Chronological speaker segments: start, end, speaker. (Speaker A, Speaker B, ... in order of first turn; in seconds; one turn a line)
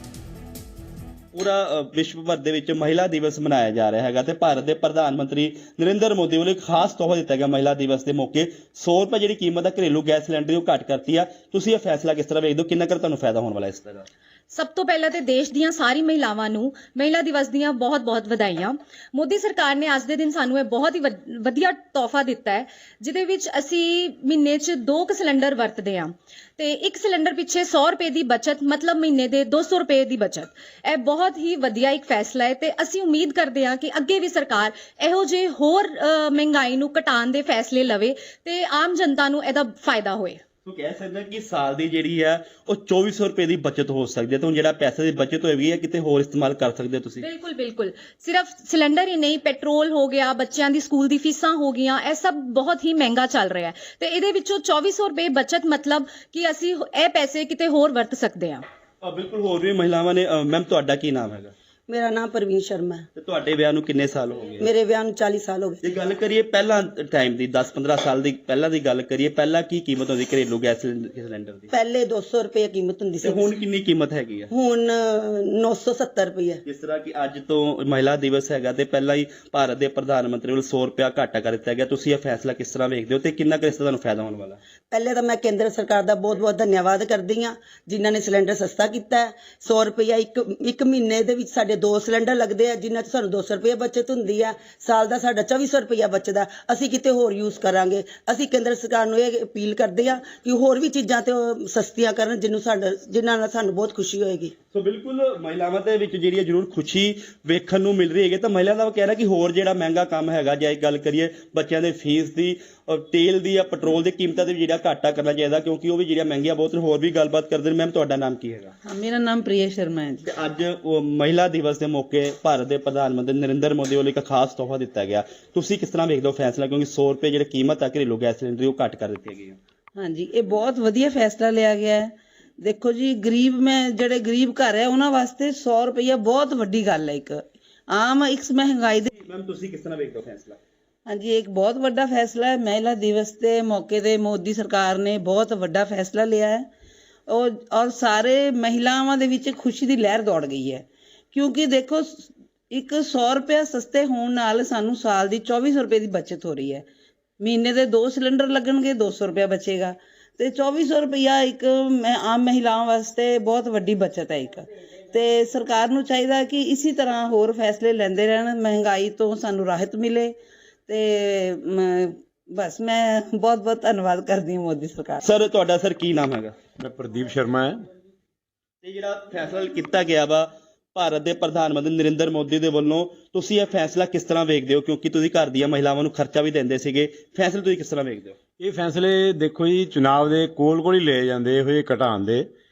Speaker A: 1.3-14.1
Speaker B: 14.5-40.4
Speaker A: 40.6-47.3
Speaker B: 47.2-58.6
Speaker A: 59.0-61.5
Speaker C: 61.9-63.1
Speaker A: 63.1-64.7
Speaker C: 64.6-66.0
Speaker A: 65.8-71.7
Speaker C: 71.7-73.5
Speaker A: 73.2-74.5
Speaker C: 74.5-76.6
Speaker A: 76.7-84.6
Speaker C: 84.9-104.5
Speaker A: 104.7-118.8
Speaker D: 118.8-120.3
Speaker A: 120.3-129.6
Speaker D: 129.9-139.1
Speaker A: 139.1-140.6
Speaker D: 141.1-146.7
Speaker D: 147.3-156.8
Speaker D: 157.4-170.3
Speaker D: 170.9-175.2
Speaker A: 175.2-176.6
Speaker E: 176.8-177.8
Speaker A: 178.8-188.4
Speaker E: 188.6-192.4